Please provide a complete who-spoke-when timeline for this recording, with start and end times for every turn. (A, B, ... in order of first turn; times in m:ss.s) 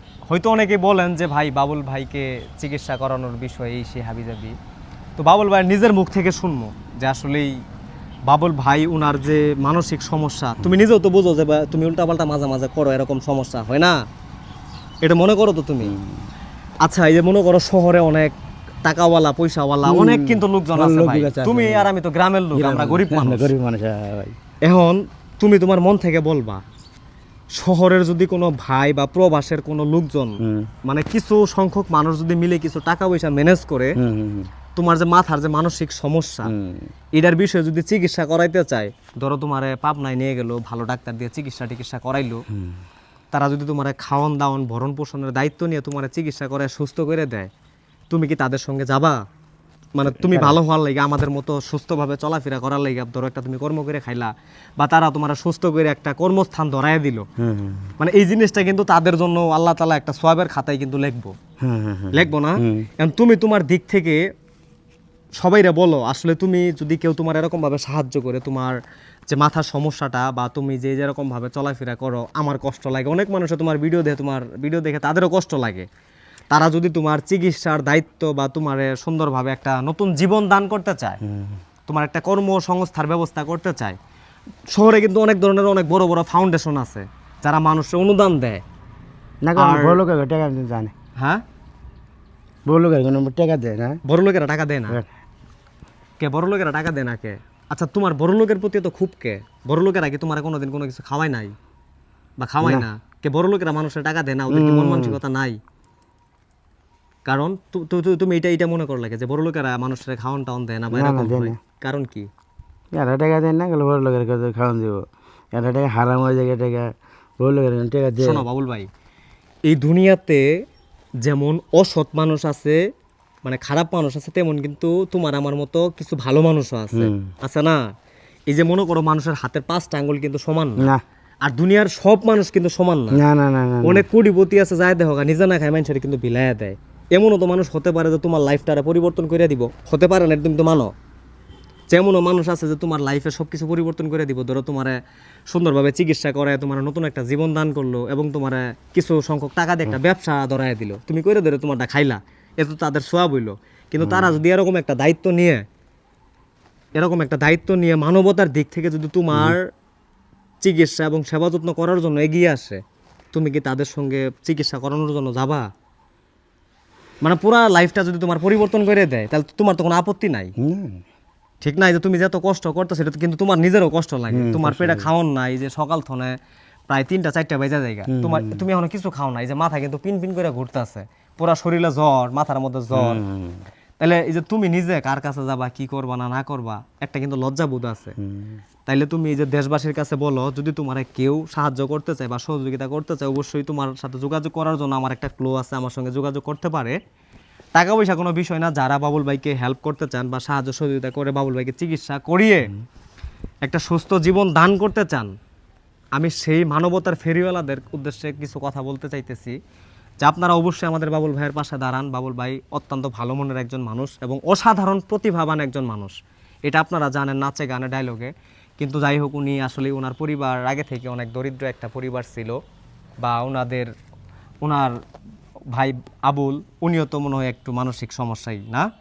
0:00.3-0:04.6 A
0:05.2-0:07.6 A
0:08.3-0:14.0 A
0:15.0-0:15.9 A
0:15.8-0:16.3 B
0:16.8-0:18.3 A
0:18.8-0:23.5 A
0:19.8-0:21.9 B
0:22.5-0:24.4 B
0:24.6-0:26.6 A
0:27.6-0:34.0 A
0:30.4-0:30.7 B
0:34.0-0:34.5 B
0:34.8-0:36.5 A
0:36.5-0:36.9 B
0:37.2-0:42.4 A
0:42.5-0:42.8 B
0:43.3-0:47.5 A
0:48.1-0:49.2 A
0:50.0-0:57.2 A
0:50.1-0:50.6 B
0:57.4-0:58.0 B
0:58.0-1:01.3 A
1:01.6-1:02.9 B
1:02.1-1:04.2 A
1:05.4-1:08.8 A
1:09.3-1:15.9 A
1:16.5-1:21.2 A
1:21.2-1:21.6 B
1:21.9-1:24.0 A
1:24.7-1:28.6 A
1:29.4-1:30.9 B
1:29.6-1:30.0 A
1:31.2-1:31.4 A
1:32.7-1:34.0 B
1:34.0-1:35.0 A
1:36.2-1:41.5 A
1:42.4-1:45.6 A
1:42.6-1:42.9 B
1:44.5-1:45.2 B
1:47.3-1:52.3 A
1:50.9-1:51.6 B
1:53.0-1:58.4 B
1:58.2-1:58.9 A
1:59.7-2:00.5 A
2:01.2-2:02.8 A
2:03.4-2:07.8 A
2:06.9-2:07.3 B
2:08.5-2:10.9 A
2:11.5-2:13.2 A
2:13.1-2:14.0 B
2:13.8-2:20.9 A
2:21.9-2:35.6 A
2:34.0-2:34.4 B
2:37.0-2:39.7 A
2:40.6-2:42.8 A
2:43.3-2:45.7 A
2:47.2-2:50.5 A
2:50.6-2:51.0 B
2:51.6-2:56.4 A
2:54.3-2:55.1 B
2:56.9-3:03.2 A
2:58.1-2:58.6 B
3:02.9-3:03.6 B
3:04.0-3:08.2 A
3:08.2-3:08.6 B
3:08.9-3:17.0 A
3:17.8-3:22.7 A
3:23.6-3:25.3 A
3:26.2-3:29.6 A
3:30.2-3:42.6 A
3:43.2-3:43.9 A
3:44.6-3:45.0 A
3:45.7-3:48.9 A